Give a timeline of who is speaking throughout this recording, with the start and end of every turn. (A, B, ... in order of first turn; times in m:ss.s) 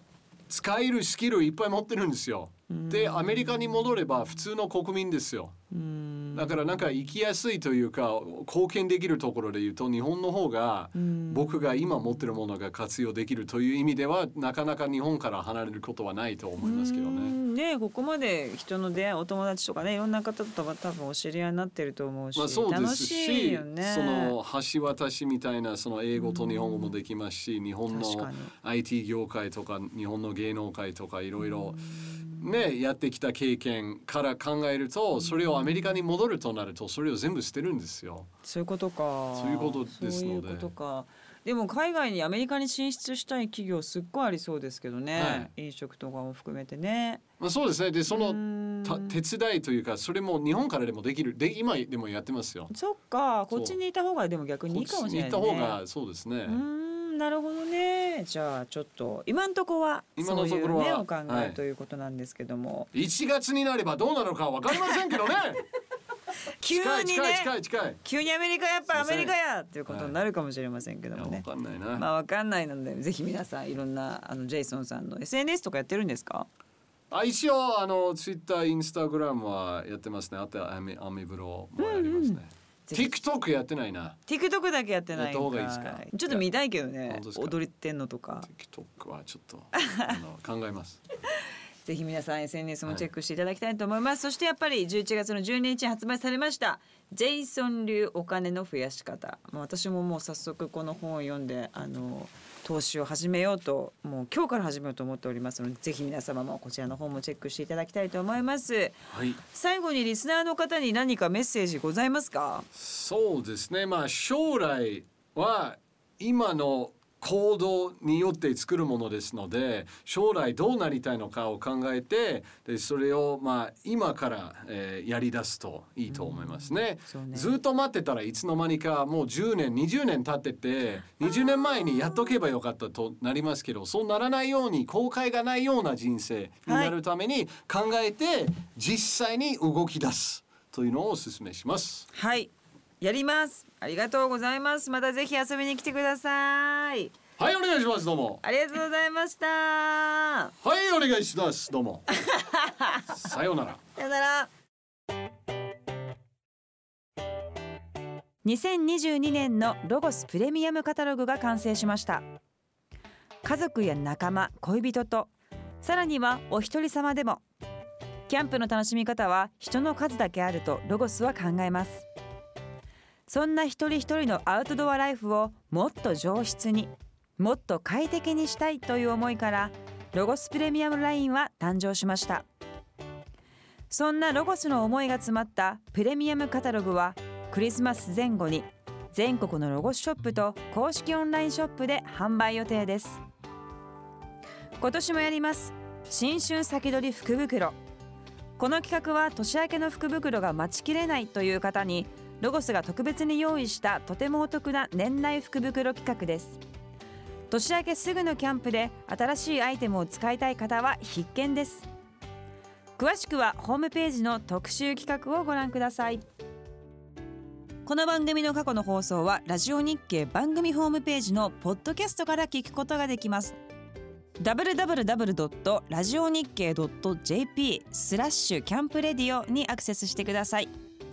0:00.5-0:05.6 A
0:02.7-0:03.5 B
0:05.7-0:06.6 B
0:06.3-0:17.4 A
0:10.9-0:12.2 B
0:16.6-0:24.4 B
0:22.4-0:38.3 A
0:26.2-0:26.9 B
0:27.9-0:28.5 B
0:31.5-0:32.4 B
0:35.2-0:35.9 B
0:38.4-0:47.2 B
0:39.3-0:40.7 A
0:45.1-0:45.5 A
0:47.4-0:52.7 A
0:48.1-0:49.2 B
0:52.7-0:55.8 B
0:53.5-0:53.8 A
0:54.7-0:56.6 A
0:56.4-1:02.9 B
1:00.2-1:01.6 A
1:02.9-1:05.6 A
1:06.6-1:16.5 B
1:06.6-1:08.0 A
1:08.9-1:09.4 A
1:09.9-1:10.1 A
1:11.1-1:12.0 A
1:17.1-1:24.2 A
1:21.8-1:23.1 B
1:24.3-1:28.5 B
1:25.1-1:26.5 A
1:27.1-1:27.6 A
1:28.4-1:31.0 A
1:29.8-1:30.1 B
1:31.8-1:52.6 B
1:49.1-1:49.4 A
1:52.7-2:22.1 A
2:06.1-2:07.6 B
2:11.6-2:11.9 B
2:16.7-2:16.9 B
2:22.1-2:27.1 B
2:27.4-2:28.4 A
2:28.4-2:30.5 B
2:30.6-2:32.1 A
2:32.2-2:33.1 B
2:33.1-2:33.8 A
2:34.0-2:34.5 B
2:38.4-2:42.2 B
2:43.4-2:47.4 B
2:48.3-2:52.1 B
2:53.3-3:02.4 B
3:03.9-3:13.2 B
3:14.8-3:17.8 B
3:18.6-3:26.6 B
3:27.5-3:31.9 B
3:33.0-3:36.2 B
3:37.8-3:43.6 B
3:44.4-3:50.7 B